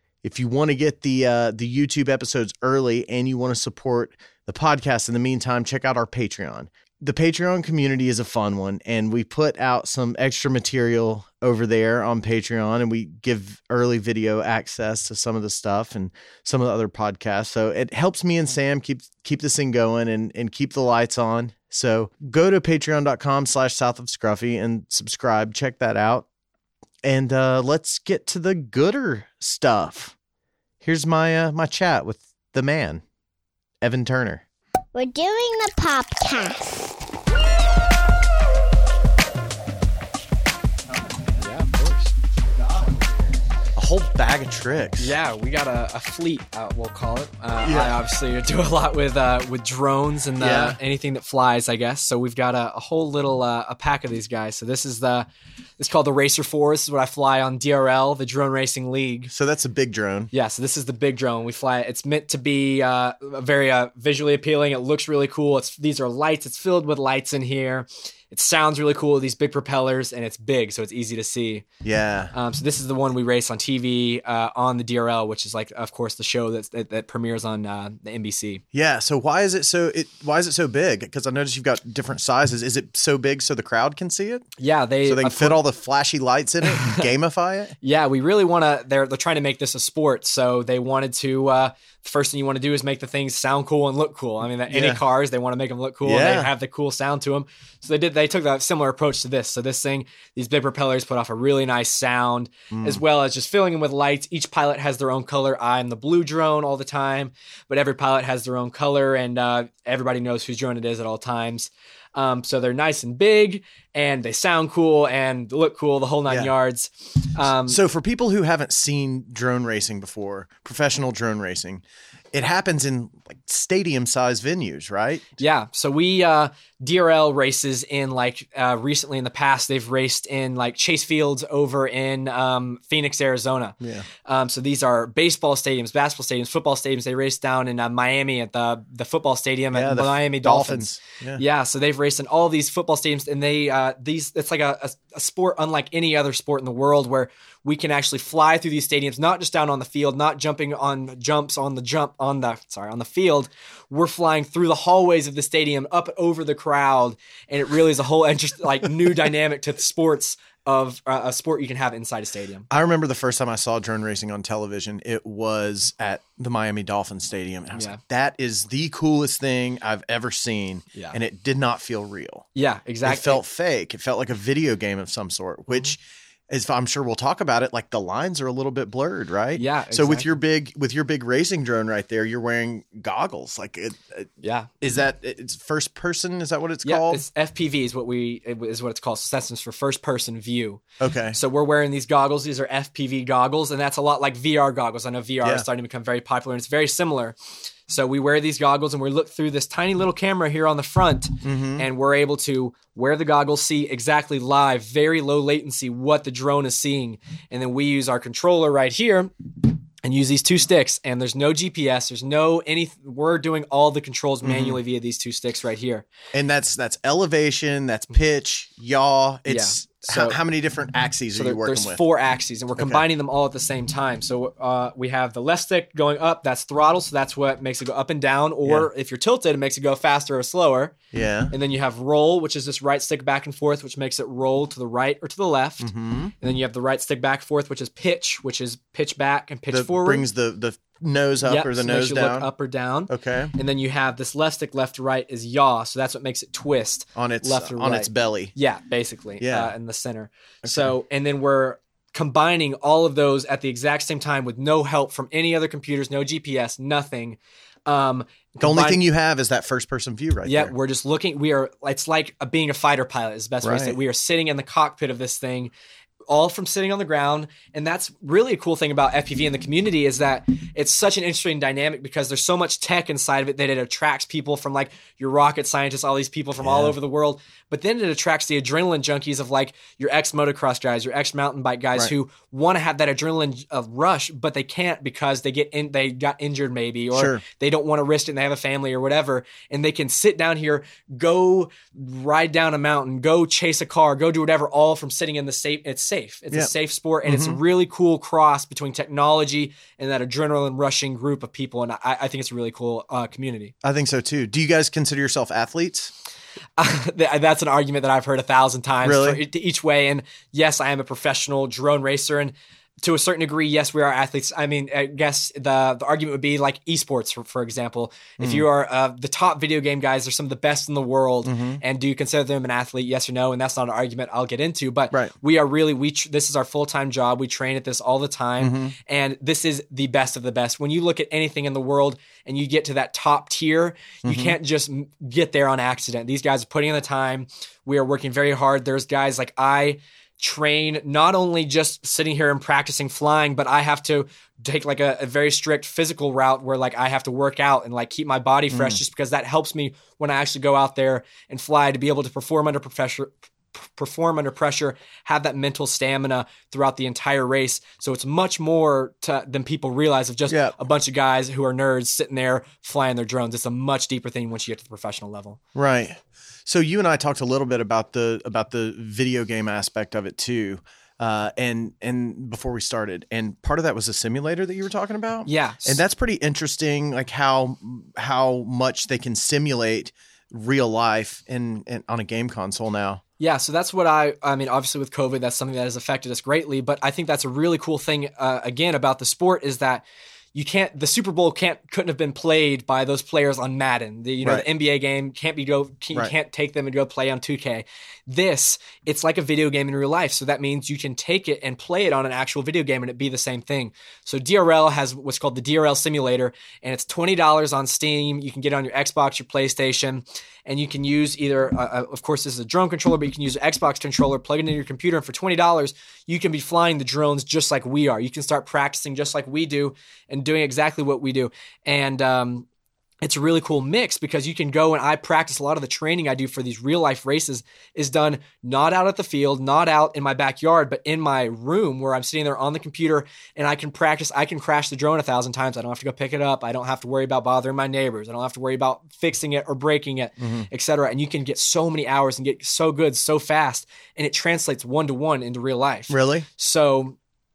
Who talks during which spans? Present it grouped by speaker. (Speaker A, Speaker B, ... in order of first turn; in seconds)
Speaker A: 0.2-26.3, 27.0-30.1, 30.8-33.0, 33.8-34.4, 43.8-45.2, 47.6-48.0, 50.4-50.8, 59.3-60.3, 71.8-72.3, 78.7-84.5, 85.0-87.8, 94.7-95.0, 96.0-96.5, 102.7-103.0, 116.3-116.5, 117.7-125.3, 133.8-134.1, 139.7-141.4, 162.7-172.5, 173.0-184.3, 184.8-187.2, 191.0-191.4, 201.4-201.9, 214.4-214.8, 216.3-222.0, 222.8-223.0, 231.1-231.5, 235.8-236.3, 239.7-242.5, 243.1-243.5, 247.2-248.5, 249.4-249.7, 250.6-250.9, 258.6-260.7, 263.6-264.0, 276.6-276.9, 287.1-287.4, 297.2-297.6, 303.8-306.1, 309.0-309.4, 318.4-318.6, 321.4-321.8, 328.6-328.9, 334.2-334.6, 348.7-349.0, 360.5-360.8, 365.8-383.2, 440.4-440.7, 446.1-446.5
Speaker B: 34.9-37.0
Speaker C: 41.4-42.1, 45.0-55.3, 55.8-59.3, 60.3-71.7, 72.3-78.6, 84.6-85.6, 86.8-87.0, 87.8-117.8, 125.4-162.7, 167.7-168.0, 172.6-173.4, 179.6-180.3, 184.4-184.7, 186.8-190.8, 191.3-197.4, 197.9-209.3, 210.0-216.1, 219.5-220.4, 221.3-230.9, 231.5-235.9, 236.4-240.3, 241.4-259.0, 260.4-265.7, 266.3-303.7, 306.8-365.6, 375.5-376.0, 383.4-422.7, 423.2-447.2